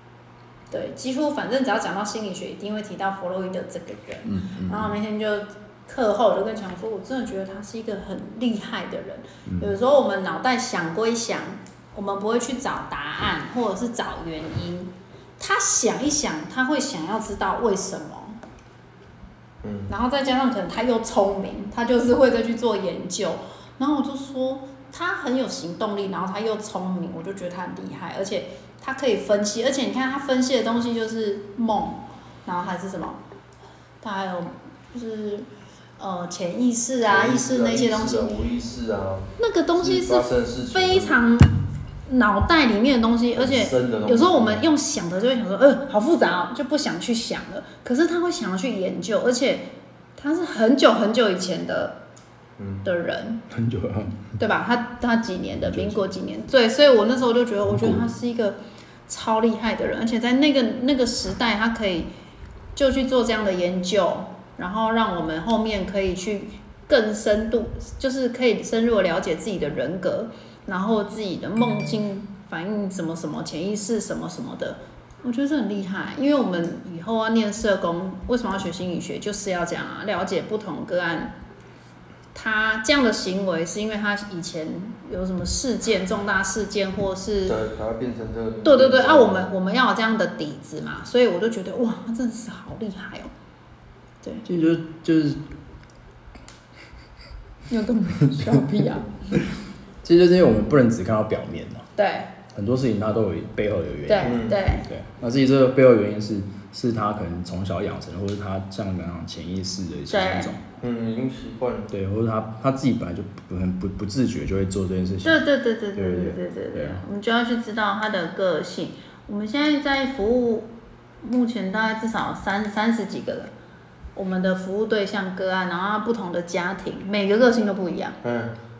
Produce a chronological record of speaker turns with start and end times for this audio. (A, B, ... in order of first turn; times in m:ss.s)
0:00.7-0:18.4 A
0:04.3-0:04.9 B
0:09.5-0:09.7 B
0:19.6-0:19.9 C
0:19.9-0:33.2 A
0:34.0-0:38.4 A
0:37.1-0:41.2 C
0:39.4-0:41.5 A
0:42.1-0:52.0 A
0:43.4-0:44.6 C
0:52.6-0:52.8 C
0:52.8-0:53.4 A
0:53.5-0:54.2 B
0:54.4-1:02.1 A
0:55.6-0:56.0 B
0:57.6-0:58.0 B
1:02.8-1:21.3 A
1:22.3-1:27.6 A
1:27.4-1:29.5 C
1:28.6-1:33.3 A
1:34.4-1:35.4 B
1:37.7-1:39.4 A
1:40.0-1:41.8 B
1:42.0-1:42.3 A
1:42.5-1:50.6 B
1:44.1-1:44.9 A
1:44.2-1:44.6 C
1:50.1-1:50.5 A
1:50.8-1:51.9 C
1:51.9-1:55.4 B
1:55.2-2:00.7 A
1:56.0-1:57.0 B
2:01.2-2:03.5 A
2:04.2-2:08.2 A
2:08.2-2:08.5 C